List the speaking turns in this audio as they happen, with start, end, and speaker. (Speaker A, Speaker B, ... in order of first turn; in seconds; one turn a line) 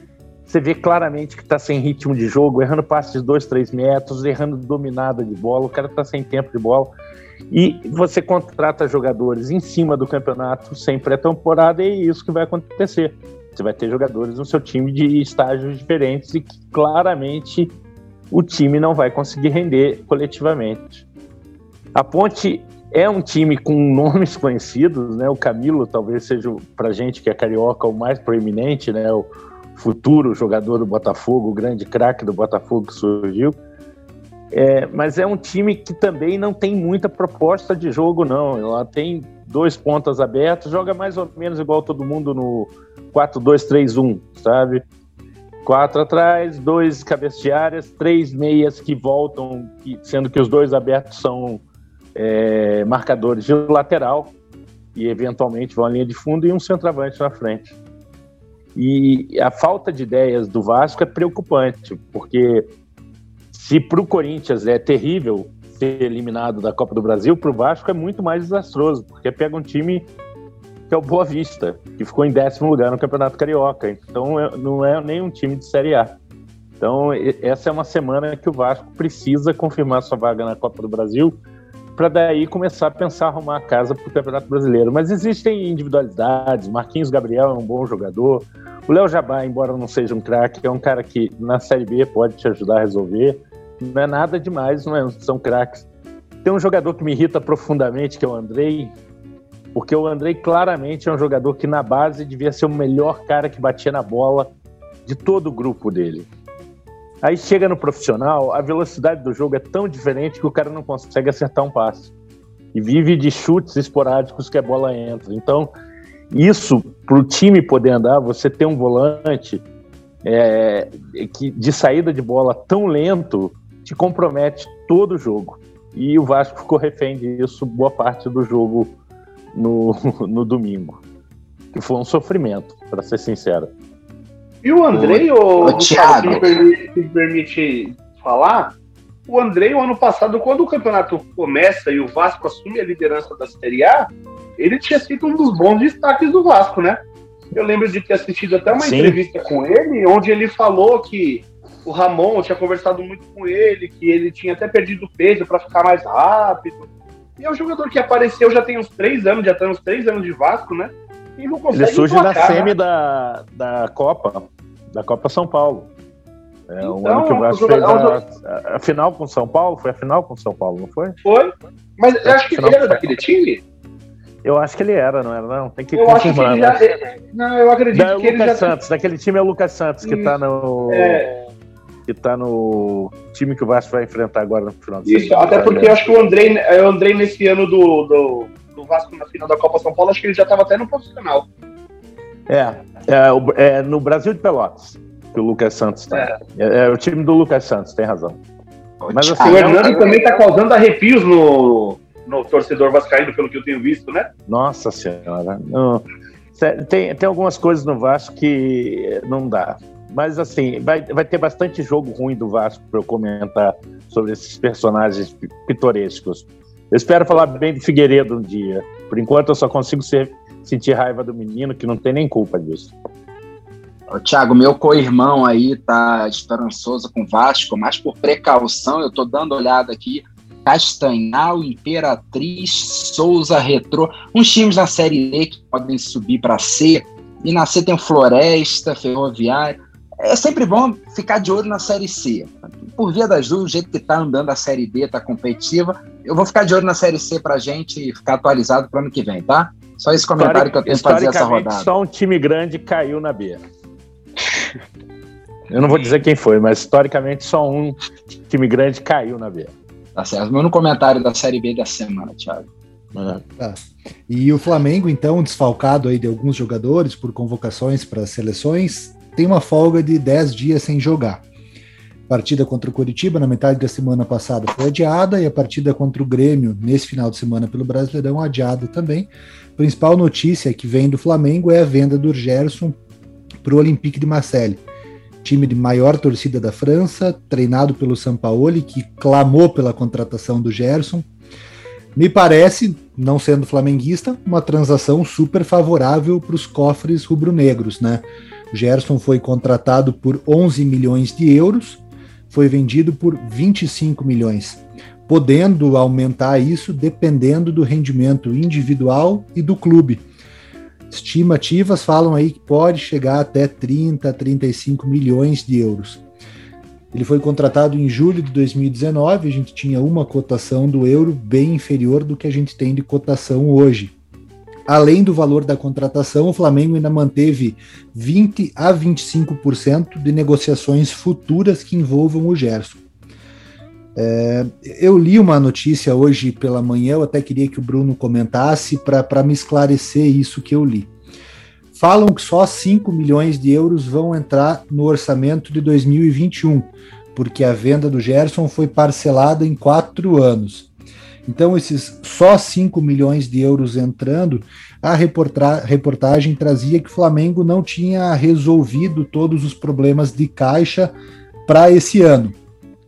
Speaker A: 0.5-6.9
Speaker A: 7.5-17.8
Speaker A: 18.3-21.1
Speaker A: 21.9-33.6
Speaker A: 34.5-44.8
Speaker A: 45.6-51.6
Speaker A: 52.1-54.3
Speaker A: 55.0-57.8
Speaker A: 58.8-62.7
Speaker A: 63.5-70.1
Speaker A: 70.9-76.2
Speaker A: 76.8-81.4
Speaker A: 82.0-95.9
Speaker A: 96.4-99.0
Speaker A: 99.7-104.5
Speaker A: 105.1-106.3
Speaker A: 107.2-112.1
Speaker A: 112.7-115.7
Speaker A: 116.3-119.6
Speaker A: 120.2-128.9
Speaker A: 129.5-131.0
Speaker A: 131.7-133.7
Speaker B: 134.6-138.7
Speaker C: 134.9-136.6
Speaker B: 139.3-147.0
Speaker B: 147.5-156.9
Speaker A: 148.8-149.2
Speaker B: 157.4-162.7
Speaker A: 161.7-165.9
Speaker A: 166.7-171.2
Speaker B: 166.8-168.2
Speaker B: 171.2-173.6
Speaker A: 172.2-173.0
Speaker A: 174.4-176.8
Speaker B: 175.9-178.7
Speaker A: 177.9-181.2
Speaker B: 180.0-180.3
Speaker B: 180.9-181.4
Speaker A: 182.1-186.0
Speaker B: 185.1-191.5
Speaker A: 192.5-198.4
Speaker C: 199.0-200.3
Speaker A: 199.1-199.9
Speaker B: 199.4-204.3
Speaker A: 204.5-222.9
Speaker C: 224.1-251.9
Speaker A: 250.4-253.6
Speaker A: 255.7-258.0
Speaker A: 258.5-259.7
Speaker C: 260.2-262.7
Speaker A: 263.1-263.4
Speaker D: 263.6-271.4
Speaker D: 272.3-283.0
Speaker D: 283.6-284.8
Speaker D: 285.4-291.3
Speaker D: 292.2-310.2
Speaker D: 311.1-316.2
Speaker D: 317.1-324.1
Speaker D: 324.9-333.0
Speaker D: 334.2-341.1
Speaker D: 341.9-350.9
Speaker D: 351.5-361.1
Speaker D: 361.7-362.6